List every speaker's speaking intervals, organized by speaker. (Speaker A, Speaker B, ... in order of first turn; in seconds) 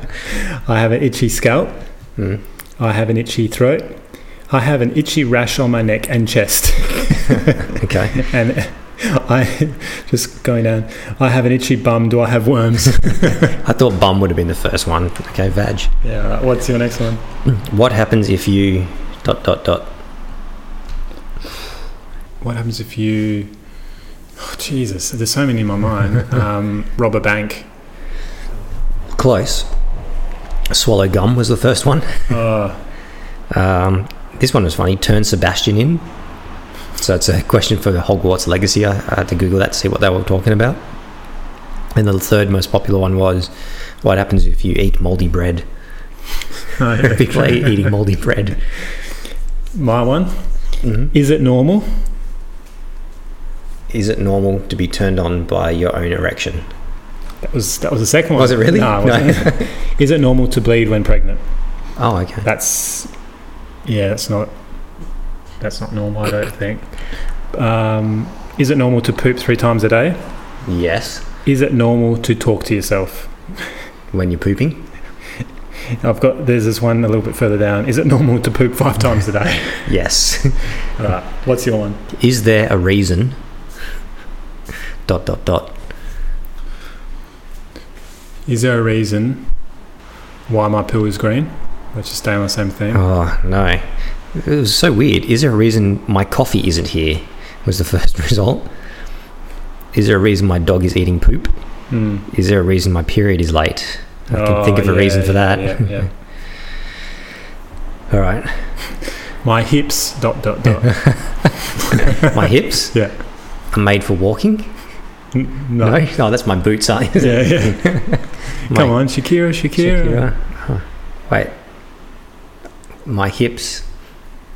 Speaker A: 0.3-1.8, 2.8-7.6, 8.2-13.6, 16.0-17.2, 22.4-23.5, 24.4-27.7, 32.3-32.8, 46.8-47.8, 49.7-50.5, 51.1-52.0, 57.4-61.4, 62.4-63.1, 63.9-64.5, 65.6-66.9, 67.5-70.3, 71.5-73.5, 76.0-79.9, 81.0-82.0, 88.5-89.5, 90.5-93.0, 101.9-102.3, 104.3-106.1, 109.4-112.3, 112.9-113.2, 115.3-116.0, 117.2-120.3
Speaker B: 2.2-2.4, 7.8-8.2, 13.4-15.9, 17.5-19.9, 29.1-29.7, 30.7-32.4, 33.5-36.1, 37.0-40.8, 41.9-45.7, 47.0-48.6, 50.8-51.1, 53.9-56.7, 58.4-59.7, 62.0-62.5, 70.7-71.3, 74.1-74.9, 79.9-80.7, 82.1-83.4, 85.1-85.8, 92.9-98.7, 99.9-101.5, 102.3-106.1, 108.1-108.7, 112.2-113.1, 113.7-114.8, 115.8-119.1, 119.8-121.5, 123.0-123.9